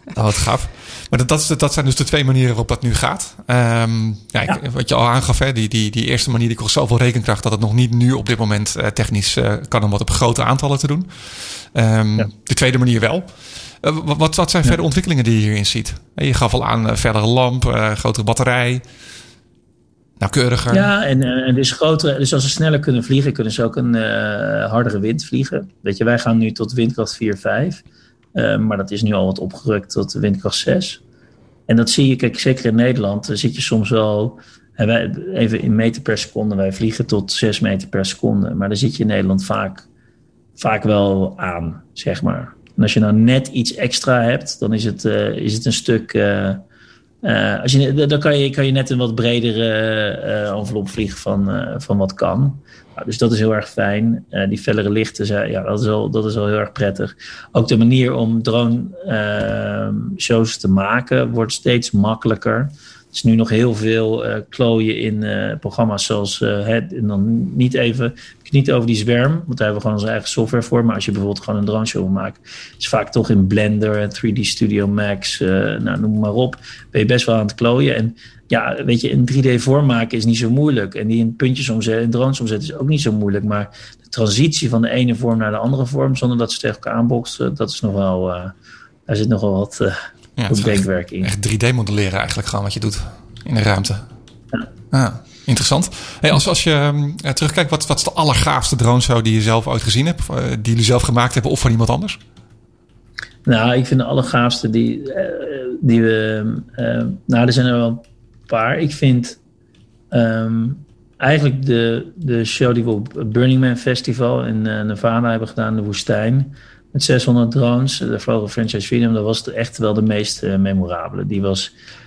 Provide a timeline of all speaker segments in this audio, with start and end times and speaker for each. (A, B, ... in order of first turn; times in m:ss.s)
0:00.1-0:13.3 A
0:13.8-0:18.8 A
0:20.2-0:20.9 A
0:20.7-0:27.8 B
0:28.3-0:31.0 B
0:31.7-0:39.8 B
0:40.6-0:46.6 B
0:47.2-1:28.5 B
1:29.1-1:30.0 B
1:30.4-1:34.0 A
1:30.5-1:31.3 B
1:34.9-1:42.2 A
1:43.4-1:49.4 B
1:50.1-2:01.7 B